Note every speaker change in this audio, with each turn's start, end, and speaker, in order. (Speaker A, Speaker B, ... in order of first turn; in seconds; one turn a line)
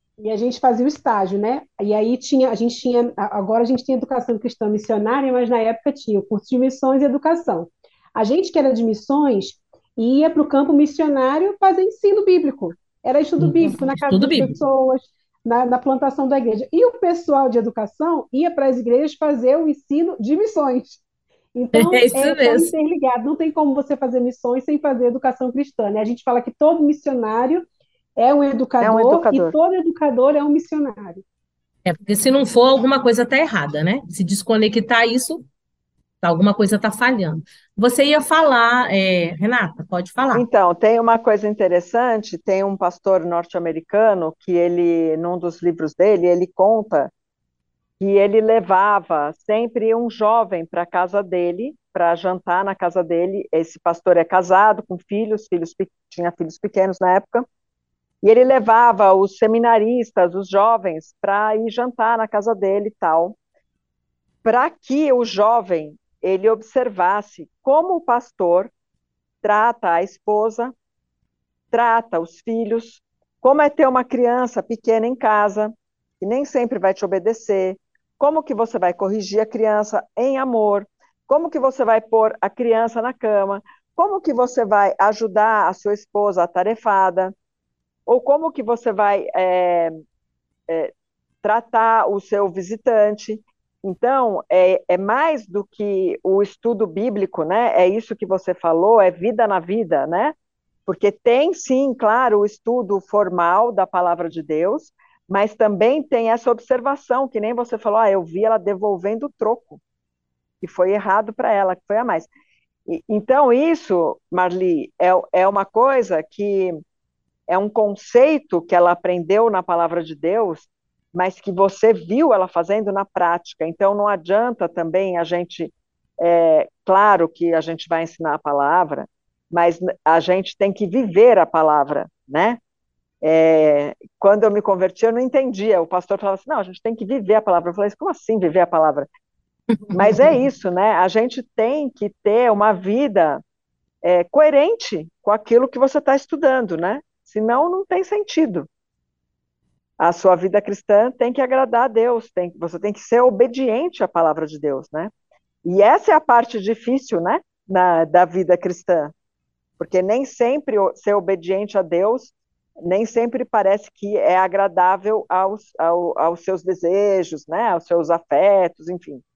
Speaker A: 0.2-21.0
Speaker B: 13.4-14.6
Speaker A: 21.6-27.7
Speaker B: 21.7-22.7
Speaker A: 28.2-31.2
Speaker C: 28.8-29.6
Speaker B: 31.9-35.4
Speaker B: 36.2-40.5
Speaker C: 40.3-47.1
Speaker C: 48.0-57.5
Speaker C: 58.2-63.4
Speaker C: 64.5-68.7
Speaker C: 69.4-70.7
Speaker C: 71.7-87.3
Speaker C: 88.1-90.0
Speaker C: 91.4-100.3
Speaker C: 100.9-109.8
Speaker C: 110.6-112.3
Speaker C: 112.9-116.8
Speaker C: 117.5-132.6
Speaker C: 133.2-139.1
Speaker B: 139.9-140.3
Speaker C: 139.9-143.4
Speaker C: 144.0-148.7
Speaker C: 150.0-155.1
Speaker C: 155.7-159.1
Speaker C: 159.8-169.2